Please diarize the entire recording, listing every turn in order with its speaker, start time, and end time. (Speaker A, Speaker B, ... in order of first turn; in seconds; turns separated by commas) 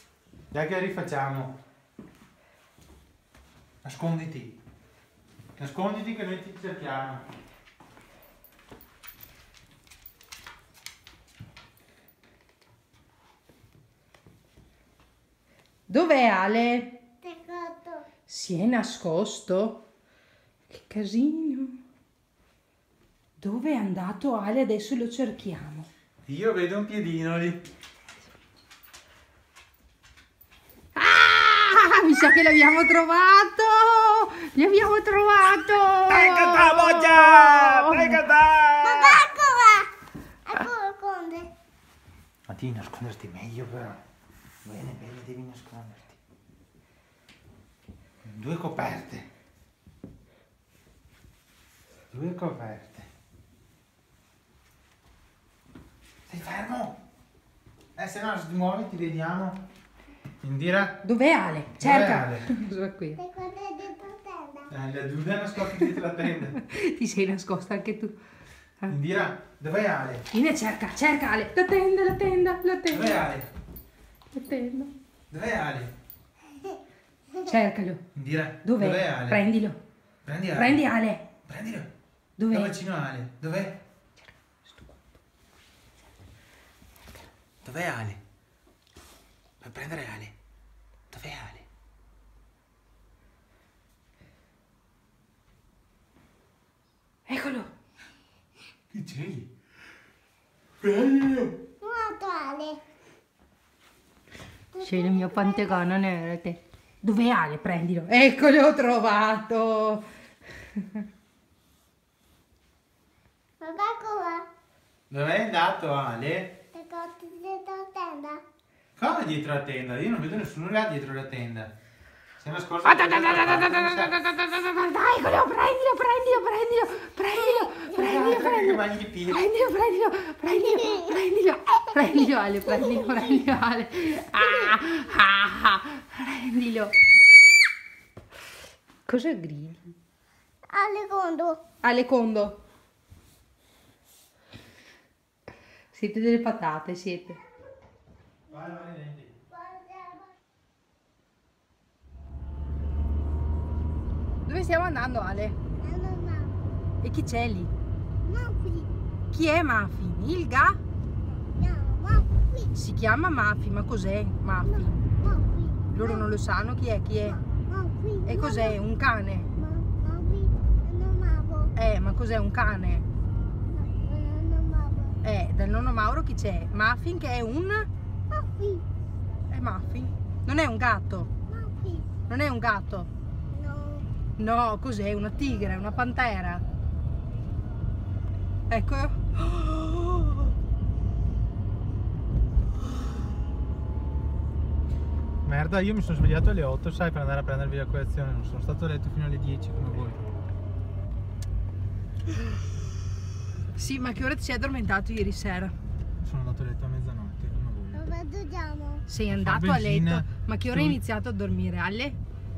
Speaker A: 0.5-1.5, Speaker A: 3.8-4.6, Speaker A: 5.5-7.2, Speaker B: 15.9-17.0, Speaker C: 17.2-18.1, Speaker B: 18.3-19.9, Speaker B: 20.7-21.8, Speaker B: 23.4-25.9, Speaker A: 26.3-27.6, Speaker B: 30.9-38.2, Speaker A: 36.1-39.2, Speaker C: 38.8-39.9, Speaker C: 40.5-41.5, Speaker A: 42.5-44.0, Speaker A: 44.6-46.2, Speaker A: 48.2-49.3, Speaker A: 52.1-53.1, Speaker A: 56.3-57.0, Speaker A: 58.0-59.6, Speaker A: 60.4-61.0, Speaker B: 61.0-63.2, Speaker A: 61.8-62.4, Speaker C: 63.2-64.7, Speaker A: 64.7-66.5, Speaker B: 65.6-66.0, Speaker B: 66.5-68.2, Speaker A: 68.9-70.2, Speaker B: 70.3-73.2, Speaker A: 72.9-73.5, Speaker B: 74.3-74.9, Speaker A: 75.3-75.9, Speaker B: 77.4-78.0, Speaker A: 78.1-79.4, Speaker B: 78.6-79.8, Speaker A: 80.2-80.8, Speaker B: 80.5-81.3, Speaker A: 81.5-81.9, Speaker B: 82.4-82.7, Speaker A: 82.5-83.8, Speaker B: 84.7-85.0, Speaker A: 87.6-88.2, Speaker A: 89.6-90.3, Speaker A: 91.1-91.7, Speaker B: 97.3-97.7, Speaker A: 98.9-99.5, Speaker A: 100.8-101.5, Speaker C: 101.8-102.8, Speaker C: 104.7-105.9, Speaker B: 104.8-110.0, Speaker B: 110.7-111.0, Speaker C: 113.6-114.5, Speaker A: 115.1-116.6, Speaker C: 116.7-118.4, Speaker A: 119.0-121.7, Speaker A: 122.4-124.2, Speaker B: 122.8-136.9, Speaker C: 127.4-127.9, Speaker A: 128.0-129.5, Speaker C: 130.6-131.1, Speaker C: 131.7-133.3, Speaker C: 134.4-134.8, Speaker B: 139.1-139.9, Speaker C: 140.7-141.6, Speaker B: 141.8-142.6, Speaker B: 145.9-147.4, Speaker A: 148.5-149.3, Speaker C: 149.5-150.3, Speaker B: 154.4-155.6, Speaker C: 155.8-156.5, Speaker B: 157.0-157.7, Speaker C: 158.2-158.9, Speaker B: 159.3-160.8, Speaker C: 161.5-162.7, Speaker B: 162.7-165.0, Speaker C: 164.7-166.3, Speaker B: 165.9-167.4, Speaker C: 167.2-168.8, Speaker B: 168.2-169.5, Speaker C: 169.6-171.7, Speaker B: 171.8-173.1, Speaker C: 173.7-175.2, Speaker B: 175.2-177.9, Speaker C: 178.3-178.8, Speaker B: 179.5-181.3, Speaker C: 181.5-182.1, Speaker B: 182.3-183.1, Speaker C: 183.5-184.1, Speaker B: 184.4-186.6, Speaker B: 188.7-190.4, Speaker A: 195.4-200.2, Speaker B: 203.7-205.7, Speaker A: 206.2-208.0, Speaker C: 207.9-209.1, Speaker B: 209.1-212.2, Speaker A: 209.3-211.0